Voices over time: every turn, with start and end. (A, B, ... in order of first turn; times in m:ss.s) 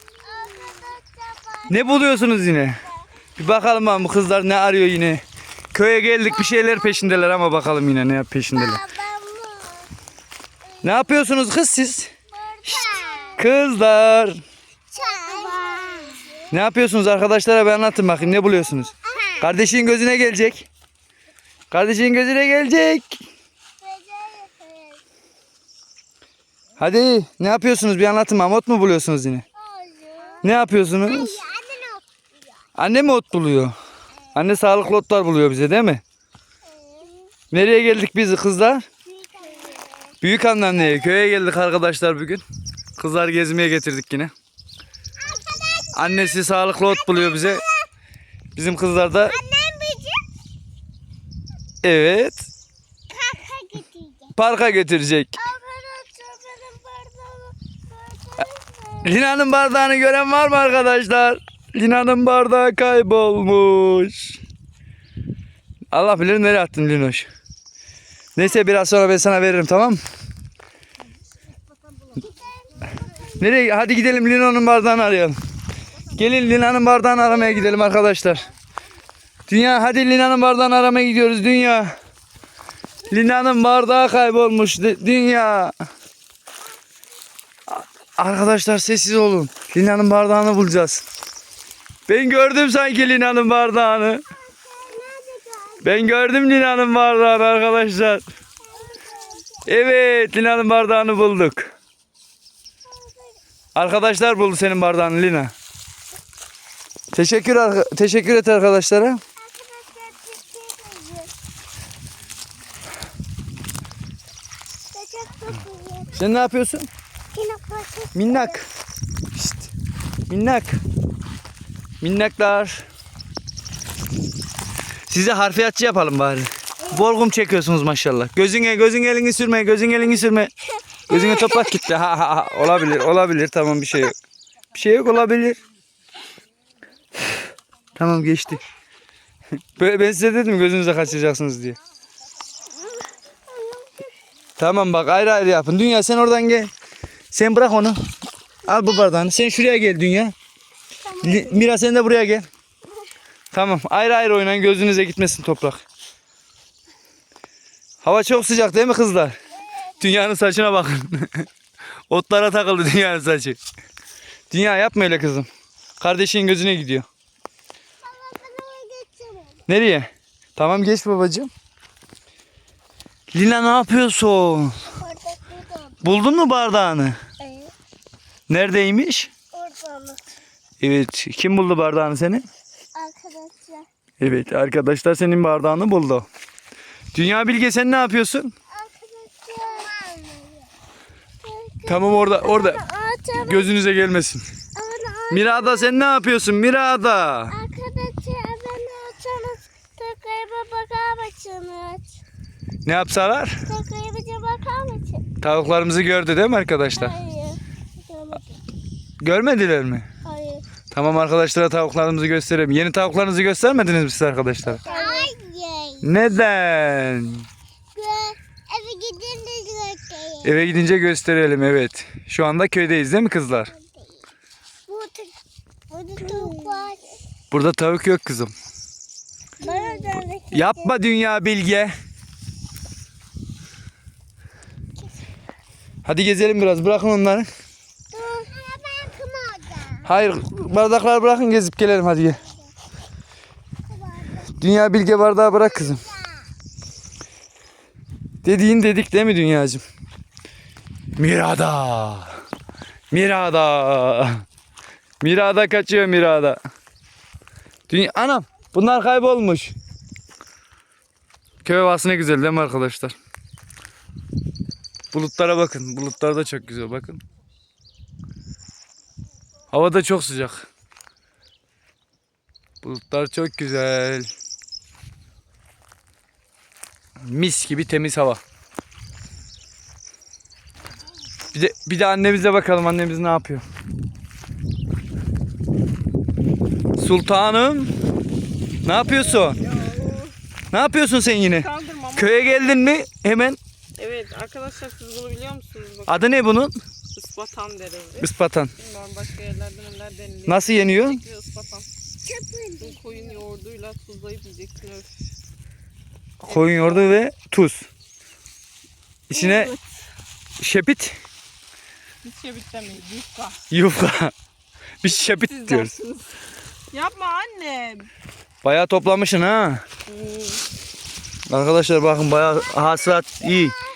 0:00.2-0:02.3 A
0:01.7-0:02.8 B
0:03.4-0:05.2 B
0:05.7-0:08.8 B
0:08.5-0:09.9 A
0:10.8-0:11.1 A
0:10.8-0:12.1 B
0:12.3-0:13.4 A
0:13.4-0:14.4 B
0:14.9-0:16.4 A
0:16.5-0:20.7 B
0:19.1-0:19.5 A
0:21.7-0:23.2 B
0:23.8-0:25.0 A
0:26.8-0:29.4 B
0:29.6-0:30.4 A
0:30.4-0:31.4 B
0:31.0-0:32.0 A
0:32.8-0:33.7 B
0:34.3-0:36.0 B
0:36.7-0:37.2 A
0:37.5-0:38.8 B
0:39.1-0:40.0 A
0:40.2-0:42.4 B
0:43.0-0:44.3 B
0:45.2-0:46.2 A
0:45.9-0:47.6 B
0:47.0-0:47.9 A
0:48.6-0:49.4 B
0:49.2-0:50.3 A
0:51.8-0:52.5 B
0:53.1-0:54.3 A
0:54.3-0:55.4 B
0:55.4-0:59.2 A
0:59.0-1:04.4 B
1:05.9-1:07.3 B
1:08.4-1:10.0 B
1:12.2-1:13.2 A
1:13.4-1:15.4 B
1:16.1-1:18.5 B
1:19.5-1:21.9 B
1:23.1-1:25.7 B
1:27.7-1:31.0 B
1:32.1-1:34.2 B
1:34.4-1:35.9 A
1:35.8-1:38.2 B
1:38.6-1:39.7 A
1:39.6-1:41.7 B
1:42.9-1:43.4 A
1:43.7-1:45.5 B
1:47.1-1:49.2 B
1:49.4-1:51.3 A
1:54.9-1:56.2 A
1:56.1-1:56.9 B
1:57.3-1:58.6 A
1:58.1-1:58.6 B
1:59.3-1:59.7 B
2:00.3-2:00.8 B
2:02.0-2:02.8 B
2:05.1-2:10.5 B
2:06.8-2:07.1 A
2:11.1-2:14.2 B
2:11.1-2:11.6 A
2:14.7-2:15.6 B
2:18.0-2:18.6 B
2:19.8-2:21.8 B
2:22.8-2:24.1 A
2:24.6-2:26.7 B
2:27.3-2:28.0 B
2:28.6-2:30.3 B
2:31.0-2:31.6 A
2:31.2-2:32.5 B
2:33.5-2:35.8 B
2:38.0-2:39.4 B
2:40.0-2:41.5 B
2:42.1-2:43.6 B
2:44.5-2:45.5 B
2:46.0-2:47.0 B
2:48.0-2:49.6 A
2:49.7-2:51.5 B
2:53.3-2:54.8 B
2:54.9-2:56.0 A
2:56.0-2:57.2 B
2:57.4-2:57.7 A
2:58.5-2:59.3 B
2:59.5-3:00.2 A
3:00.8-3:02.4 B
3:02.9-3:03.9 A
3:04.2-3:06.3 B
3:07.1-3:08.5 B
3:08.7-3:10.7 A
3:11.4-3:13.7 A
3:11.8-3:12.8 B
3:13.4-3:14.4 B
3:14.7-3:15.9 A
3:15.3-3:17.6 B
3:17.5-3:22.2 A
3:22.8-3:23.6 B
3:23.7-3:25.2 A
3:25.4-3:27.2 B
3:26.9-3:28.6 A
3:29.2-3:30.0 B
3:30.2-3:30.6 A
3:30.9-3:34.8 B
3:34.8-3:36.1 A
3:36.0-3:37.5 B
3:37.9-3:40.7 A
3:40.4-3:43.7 B
3:43.7-3:44.2 A
3:44.9-3:45.4 A
3:45.9-3:47.2 A
3:47.5-3:48.5 B
3:49.6-3:51.0 A
3:50.5-3:51.9 B
3:56.0-3:57.5 B
3:58.1-4:00.1 A
4:00.0-4:02.4 B
4:03.9-4:04.5 A
4:04.6-4:06.0 B
4:06.0-4:06.4 A
4:08.4-4:09.8 B
4:11.2-4:12.4 B
4:13.1-4:14.4 B
4:15.2-4:16.6 B
4:17.9-4:19.7 B
4:21.6-4:23.2 B
4:25.1-4:27.2 B
4:29.7-4:30.7 B
4:32.8-4:34.3 B
4:37.2-4:38.4 B
4:41.5-4:43.6 B
4:47.0-4:47.9 B
4:48.8-4:49.6 B
4:49.3-4:50.3 C
4:50.7-4:53.6 B
4:51.5-4:52.4 C
4:53.9-4:56.3 C
4:56.1-4:56.7 B
4:57.1-5:01.9 C
4:58.2-4:58.7 B
5:00.4-5:01.2 B
5:02.2-5:03.2 A
5:02.8-5:05.1 C
5:06.4-5:07.9 B
5:06.4-5:07.1 C
5:09.3-5:09.7 B
5:09.3-5:09.8 C
5:10.6-5:11.1 B
5:12.2-5:13.6 C
5:13.7-5:14.3 B
5:15.0-5:15.9 B
5:15.1-5:16.3 C
5:16.9-5:18.1 C
5:18.6-5:19.8 B
5:20.1-5:20.6 C
5:21.5-5:23.8 B